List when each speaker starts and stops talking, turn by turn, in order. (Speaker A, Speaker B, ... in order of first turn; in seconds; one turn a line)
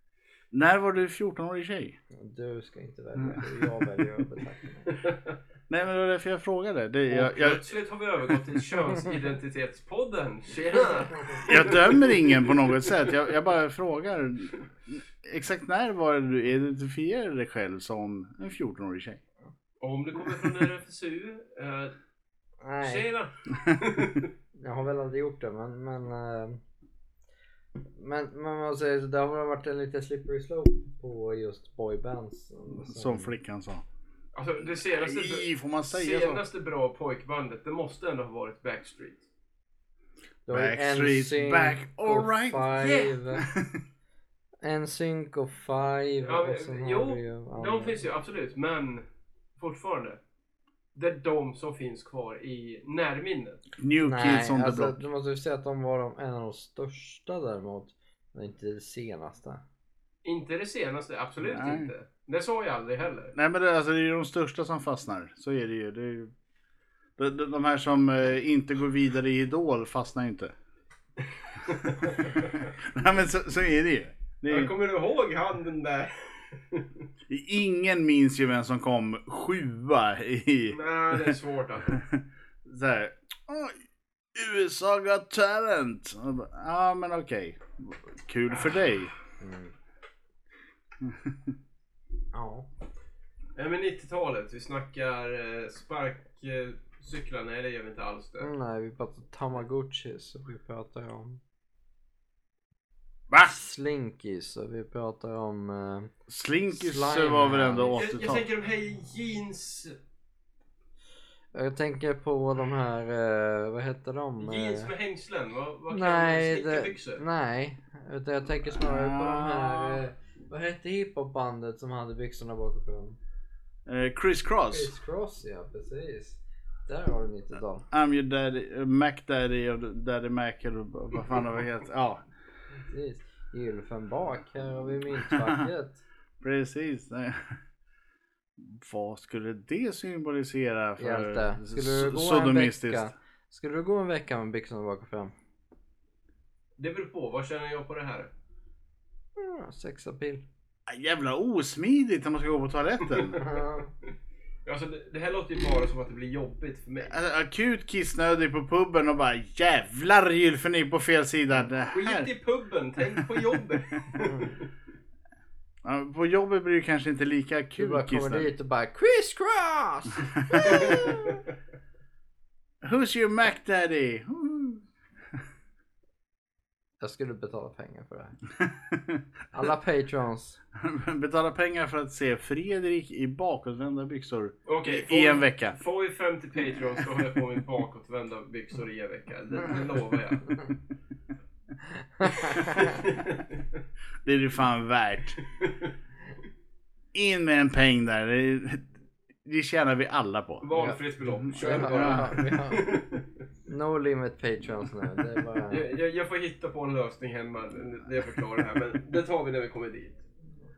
Speaker A: 0.5-2.0
Speaker B: 2.1-5.0
Speaker C: 4.9-5.2
Speaker A: 5.7-7.6
Speaker C: 7.1-12.9
Speaker A: 11.4-19.2
Speaker C: 19.8-21.9
Speaker B: 22.6-23.1
Speaker C: 22.8-24.3
Speaker B: 24.6-26.6
Speaker B: 27.9-33.3
Speaker A: 32.7-33.8
Speaker C: 34.4-39.3
Speaker A: 34.8-36.4
Speaker B: 40.5-43.5
Speaker A: 40.5-42.7
Speaker C: 42.8-43.2
Speaker A: 43.4-43.8
Speaker B: 44.6-48.0
Speaker C: 46.2-49.0
Speaker C: 49.6-50.2
Speaker C: 51.0-53.6
Speaker A: 53.8-55.0
Speaker B: 54.0-59.6
Speaker C: 60.2-63.4
Speaker A: 61.4-61.9
Speaker A: 63.4-66.3
Speaker A: 67.2-70.5
Speaker C: 71.6-72.7
Speaker A: 72.0-74.7
Speaker C: 74.5-77.0
Speaker A: 77.3-81.4
Speaker C: 80.7-82.0
Speaker A: 81.9-83.8
Speaker A: 84.3-89.1
Speaker B: 89.4-89.7
Speaker A: 91.0-91.5
Speaker B: 92.3-92.7
Speaker C: 93.6-98.5
Speaker B: 98.4-101.4
Speaker B: 103.4-106.1
Speaker A: 106.3-108.5
Speaker B: 106.7-108.1
Speaker C: 107.9-110.0
Speaker B: 111.5-114.9
Speaker C: 114.4-117.2
Speaker B: 115.9-123.2
Speaker A: 118.7-120.0
Speaker A: 123.9-124.9
Speaker B: 124.7-127.9
Speaker A: 127.9-132.2
Speaker B: 132.9-136.0
Speaker A: 135.3-135.7
Speaker A: 136.4-137.6
Speaker A: 138.6-143.1
Speaker B: 141.0-145.3
Speaker C: 146.8-148.3
Speaker B: 149.4-150.4
Speaker A: 150.9-153.4
Speaker C: 153.1-153.6
Speaker B: 153.4-153.9
Speaker C: 154.7-157.1
Speaker A: 157.1-162.3
Speaker C: 161.9-164.7
Speaker B: 164.2-164.5
Speaker A: 165.8-168.5
Speaker B: 167.8-171.4
Speaker A: 170.5-170.8
Speaker C: 170.6-171.4
Speaker A: 172.8-174.8
Speaker B: 177.0-178.4
Speaker A: 178.6-179.2
Speaker B: 179.5-180.6
Speaker A: 180.8-185.8
Speaker C: 184.7-190.6
Speaker B: 192.2-193.0
Speaker C: 192.4-193.5
Speaker A: 194.2-195.4
Speaker C: 195.5-195.9
Speaker A: 197.1-198.9
Speaker A: 199.4-200.7
Speaker C: 200.6-203.2
Speaker B: 200.7-202.9
Speaker A: 201.2-202.3
Speaker B: 203.7-205.9
Speaker C: 205.7-210.2